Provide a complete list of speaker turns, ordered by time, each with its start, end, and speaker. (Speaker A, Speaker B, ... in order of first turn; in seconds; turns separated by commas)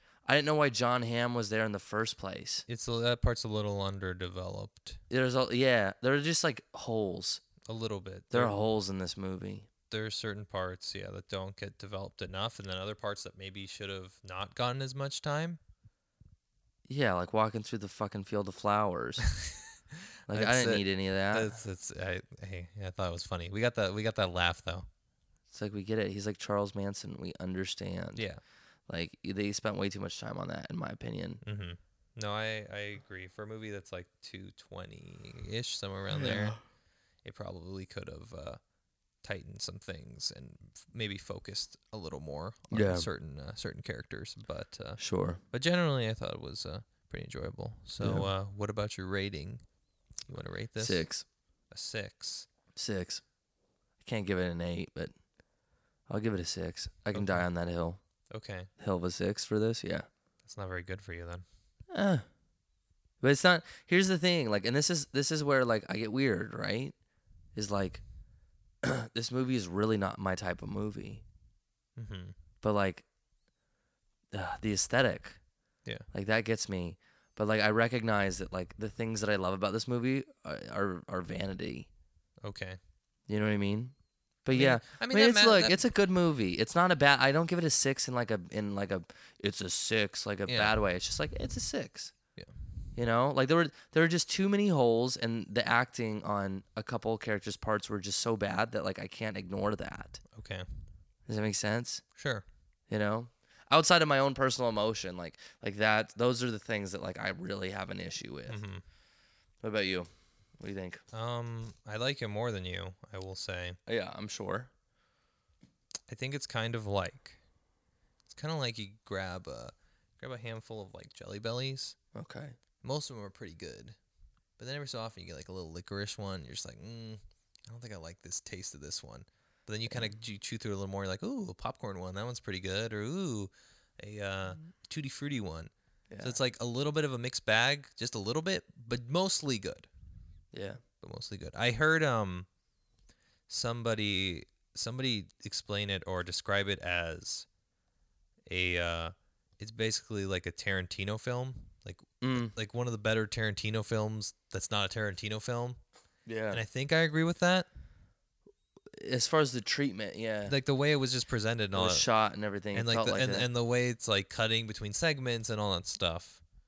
Speaker A: 0.2-2.6, Speaker B: 2.7-5.0, Speaker A: 5.1-7.4, Speaker B: 7.6-8.6, Speaker A: 8.3-9.7, Speaker B: 9.9-15.6, Speaker A: 16.9-19.2, Speaker B: 19.2-24.9, Speaker A: 20.3-21.6, Speaker A: 25.5-28.2, Speaker B: 28.1-28.4, Speaker A: 28.9-31.4, Speaker B: 31.4-36.6, Speaker A: 36.1-36.6, Speaker B: 37.2-38.6, Speaker B: 39.2-45.0, Speaker A: 42.7-43.1, Speaker A: 45.0-45.4, Speaker B: 45.5-49.6, Speaker A: 48.0-48.3, Speaker B: 50.2-51.0, Speaker A: 50.8-51.2, Speaker B: 51.7-52.5, Speaker A: 52.8-53.2, Speaker A: 54.0-55.1, Speaker A: 56.1-58.0, Speaker B: 57.1-57.5, Speaker B: 58.3-58.7, Speaker A: 58.8-60.0, Speaker B: 60.4-61.4, Speaker A: 61.9-62.2, Speaker A: 63.2-66.9, Speaker A: 67.5-68.0, Speaker A: 68.8-71.2, Speaker B: 72.0-72.3, Speaker A: 72.6-73.0, Speaker A: 74.3-75.4, Speaker A: 76.1-81.9, Speaker B: 82.4-82.8, Speaker A: 83.3-92.1, Speaker B: 84.5-85.8, Speaker B: 90.5-90.7, Speaker A: 93.0-100.2, Speaker B: 100.3-100.7, Speaker A: 101.3-102.0, Speaker B: 102.2-102.4, Speaker A: 102.9-108.6, Speaker B: 108.5-108.8, Speaker A: 109.6-110.1, Speaker A: 110.6-111.0, Speaker B: 111.1-113.8, Speaker A: 113.9-114.7, Speaker B: 116.1-117.4, Speaker B: 118.2-122.0, Speaker A: 122.1-122.5, Speaker B: 122.8-124.0, Speaker B: 124.6-139.9, Speaker A: 136.1-136.4, Speaker A: 140.5-140.8, Speaker B: 141.0-142.5, Speaker B: 143.5-147.5, Speaker B: 148.5-155.8, Speaker A: 152.2-152.5, Speaker A: 156.3-156.6, Speaker B: 156.5-157.7, Speaker A: 158.9-160.5, Speaker B: 160.4-162.1, Speaker A: 161.7-163.4, Speaker B: 162.7-166.4